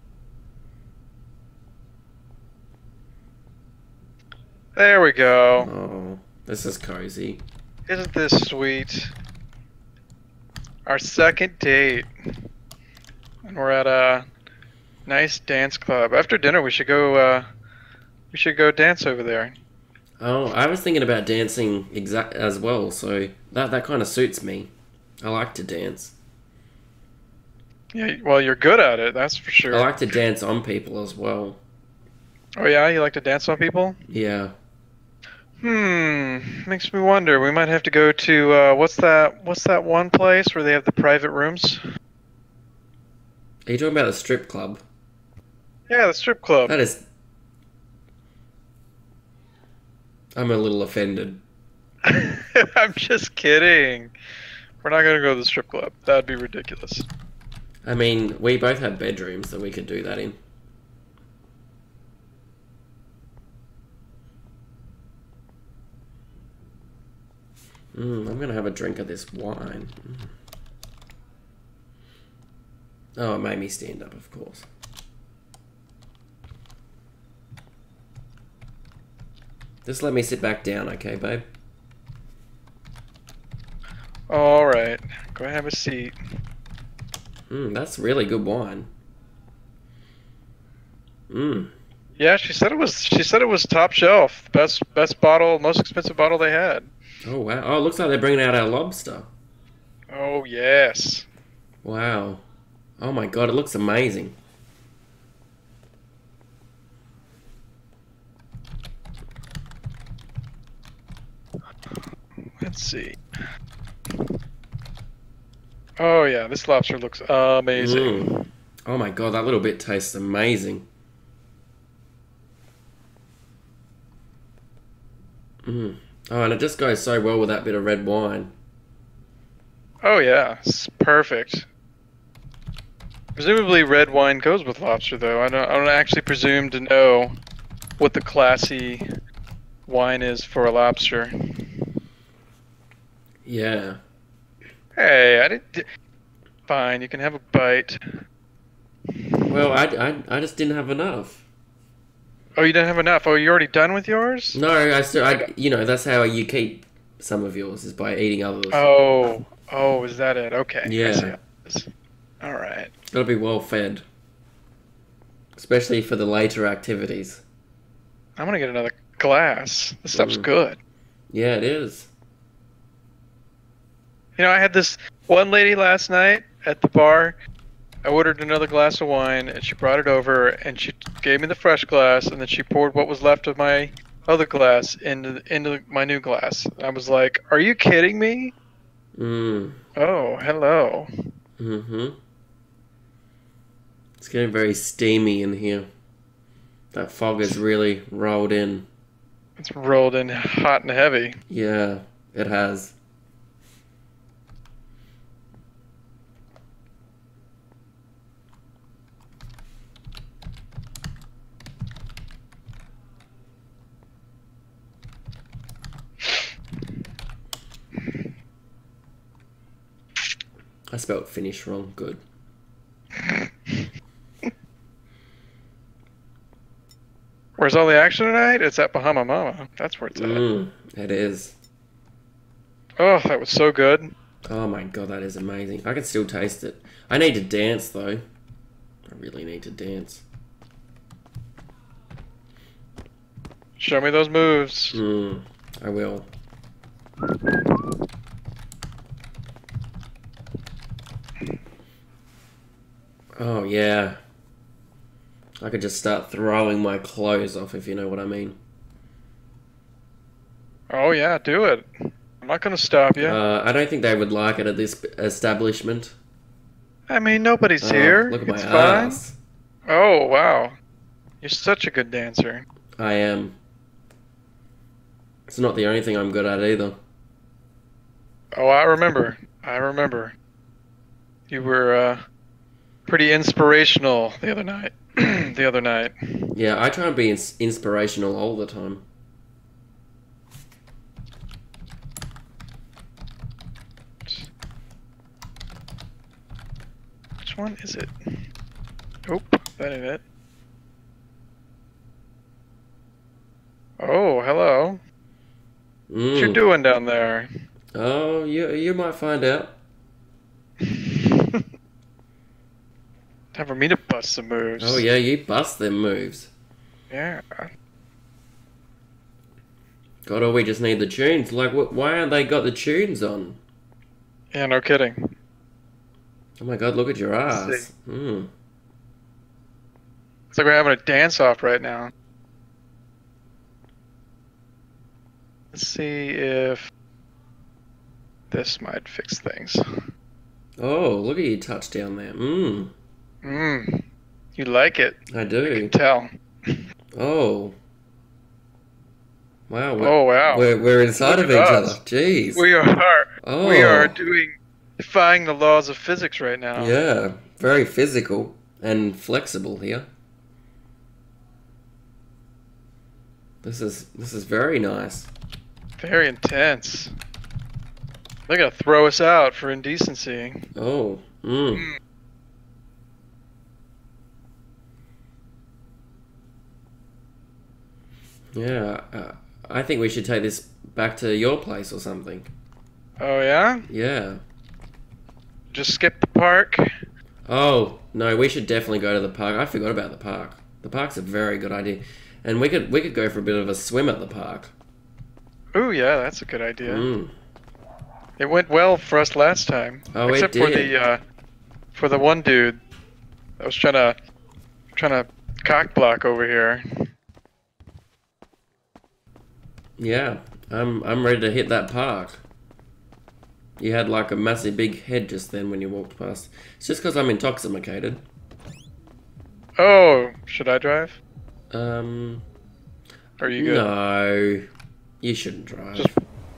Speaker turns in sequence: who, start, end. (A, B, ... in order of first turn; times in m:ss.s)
0:04.8-0:05.7 A
0:05.6-0:07.4 B
0:07.9-0:09.1 A
0:10.9-0:12.1 A
0:13.4-0:14.3 A
0:15.1-0:17.5 A
0:18.3-0:19.6 A
0:20.2-0:26.1 B
0:27.9-0:29.9 A
0:29.7-0:31.6 B
0:32.6-0:34.0 A
0:34.1-0:34.5 B
0:35.6-0:41.8 A
0:43.7-0:44.8 B
0:45.9-0:46.8 A
0:46.6-0:47.0 B
0:50.4-0:51.4 B
0:52.0-0:54.1 A
0:54.8-0:57.1 A
0:57.9-1:00.4 B
1:07.9-1:10.3 B
1:13.2-1:14.7 B
1:19.8-1:21.4 B
1:24.3-1:26.2 A
1:27.5-1:28.9 B
1:31.3-1:31.7 B
1:32.2-1:36.9 A
1:37.2-1:39.3 B
1:40.1-1:41.3 A
1:41.8-1:42.4 B
1:43.0-1:44.4 B
1:52.6-1:53.2 A
1:56.0-1:58.5 A
1:57.8-1:58.3 B
1:58.8-2:00.9 B
2:05.6-2:08.5 B
2:10.0-2:11.7 A
2:13.4-2:17.4 A
2:18.0-2:19.1 A
2:19.9-2:21.9 A
2:23.4-2:24.0 B
2:25.0-2:25.9 A
2:26.7-2:28.0 A
2:29.3-2:29.6 A
2:29.5-2:31.4 B
2:32.6-2:34.6 A
2:34.5-2:38.9 B
2:38.7-2:41.9 A
2:40.8-2:41.4 B
2:42.4-2:42.9 A
2:43.1-2:44.0 B
2:45.6-2:47.4 B
2:48.4-2:50.8 A
2:50.1-2:50.5 B
2:51.3-2:52.1 B
2:54.4-2:57.4 A
2:58.0-3:08.6 A
3:09.2-3:09.8 B
3:10.0-3:11.1 A
3:11.6-3:12.2 B
3:14.2-3:15.9 B
3:16.9-3:18.9 B
3:19.6-3:21.4 A
3:21.5-3:23.0 B
3:40.9-3:42.2 B
3:43.2-3:43.8 A
3:47.6-3:50.4 A
3:50.1-3:51.6 B
3:53.0-3:54.1 A
3:54.5-3:58.2 B
3:59.1-4:00.2 B
4:03.8-4:05.0 A
4:04.9-4:06.3 B
4:13.4-4:14.2 B
4:15.6-4:18.6 B
4:20.9-4:23.4 A
4:23.2-4:26.2 B
4:27.1-4:29.2 A
4:27.8-4:29.4 B
4:29.9-4:30.8 A
4:31.4-4:32.6 A
4:33.0-4:33.6 B
4:35.5-4:37.0 B
4:38.5-4:40.4 A
4:41.5-4:42.2 A
4:43.1-4:46.6 A
4:46.6-4:49.0 B
4:57.4-4:58.4 A
4:59.3-5:00.2 A
5:04.0-5:05.0 A
5:06.1-5:06.6 B
5:06.3-5:07.5 A
5:07.9-5:09.8 B
5:10.8-5:11.7 A
5:13.5-5:15.0 A
5:14.8-5:16.5 B
5:17.1-5:17.7 A
5:20.2-5:23.6 B
5:24.5-5:25.4 A
5:26.6-5:28.5 B
5:27.5-5:27.9 A
5:30.5-5:32.1 A
5:35.7-5:36.9 A
5:38.5-5:39.8 A
5:40.8-5:42.9 B
5:43.4-5:46.8 A
5:45.3-5:45.9 B
5:47.2-5:47.8 B
5:49.7-5:52.7 B
5:50.0-5:52.0 A
5:52.5-5:57.0 A
5:53.4-5:54.2 B
5:56.8-6:00.1 B
6:03.6-6:05.3 B
6:06.0-6:07.2 A
6:08.5-6:10.7 A
6:10.8-6:11.9 B
6:18.5-6:22.5 B
6:23.2-6:23.9 A
6:23.9-6:24.4 B
6:25.7-6:26.9 A
6:27.5-6:34.7 B
6:35.7-6:37.1 A
6:36.8-6:37.4 B
6:38.4-6:41.2 A
6:40.1-6:41.0 B
6:42.0-6:42.8 A
6:43.6-6:44.2 A
6:45.0-6:47.1 A
6:50.0-6:52.4 B
6:53.8-6:58.2 B
6:59.8-7:01.2 A
7:01.7-7:02.4 B
7:03.4-7:03.9 A
7:03.6-7:04.7 B
7:05.2-7:06.2 B